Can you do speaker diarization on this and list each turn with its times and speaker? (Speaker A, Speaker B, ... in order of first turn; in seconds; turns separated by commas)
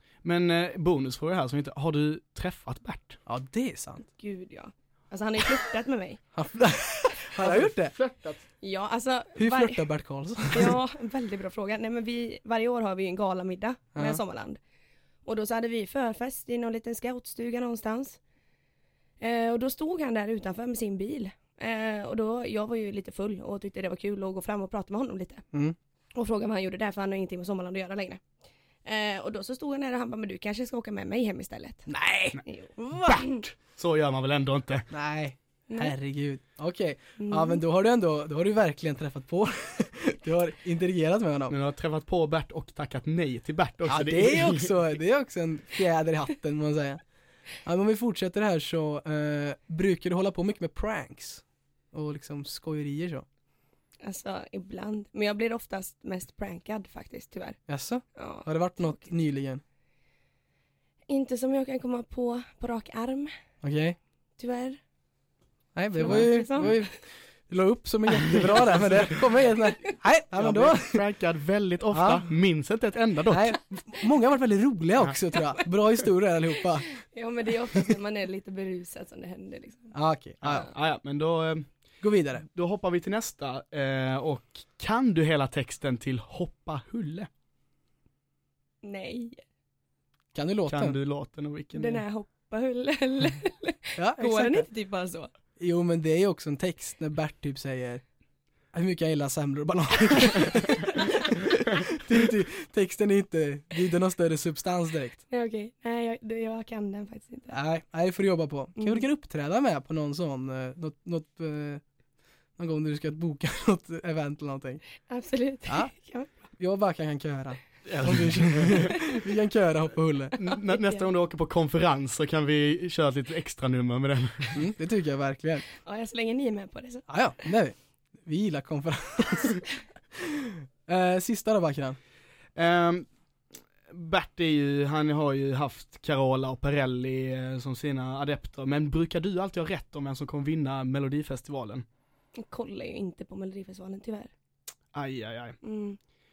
Speaker A: 0.2-3.2, Speaker B: 3.2-4.1, Speaker C: 4.2-6.2, Speaker B: 6.3-7.9, Speaker A: 7.3-8.4, Speaker C: 8.6-9.9, Speaker B: 9.3-10.8, Speaker C: 10.4-14.6, Speaker B: 13.9-14.2, Speaker C: 15.2-18.2, Speaker C: 19.2-25.4, Speaker C: 26.1-28.2, Speaker C: 28.8-31.9, Speaker B: 31.9-33.3, Speaker C: 32.4-33.4, Speaker A: 33.1-34.9, Speaker B: 34.9-41.5, Speaker C: 35.7-35.9, Speaker C: 37.2-37.6, Speaker A: 41.5-44.7, Speaker B: 43.9-47.0, Speaker B: 47.6-53.2, Speaker C: 54.0-57.6, Speaker B: 57.7-59.6, Speaker C: 58.1-59.1, Speaker C: 61.1-63.3, Speaker B: 63.6-64.0, Speaker C: 64.4-64.8, Speaker B: 65.7-71.0, Speaker C: 65.9-66.8, Speaker A: 66.0-66.7, Speaker A: 68.2-69.0, Speaker A: 70.3-73.6, Speaker B: 71.9-72.3, Speaker B: 73.3-76.9, Speaker C: 77.0-79.9, Speaker B: 79.9-80.7, Speaker A: 80.4-81.7, Speaker B: 82.0-82.4, Speaker A: 82.5-87.3, Speaker C: 88.8-89.4, Speaker B: 90.3-91.0, Speaker A: 90.7-92.0, Speaker C: 91.7-95.3, Speaker B: 94.0-94.7, Speaker B: 95.6-98.0, Speaker B: 98.7-105.2, Speaker C: 105.3-107.5, Speaker B: 107.5-111.8, Speaker C: 108.8-109.0, Speaker B: 112.6-114.8, Speaker C: 115.1-116.3, Speaker B: 116.6-120.4, Speaker A: 117.8-119.1, Speaker A: 120.4-124.6, Speaker C: 120.7-121.0, Speaker B: 124.5-125.7, Speaker C: 125.8-127.0, Speaker B: 127.1-129.6, Speaker B: 130.1-132.0, Speaker A: 132.6-133.1, Speaker A: 133.9-141.8, Speaker C: 142.4-144.3, Speaker A: 144.9-145.6, Speaker C: 145.6-146.0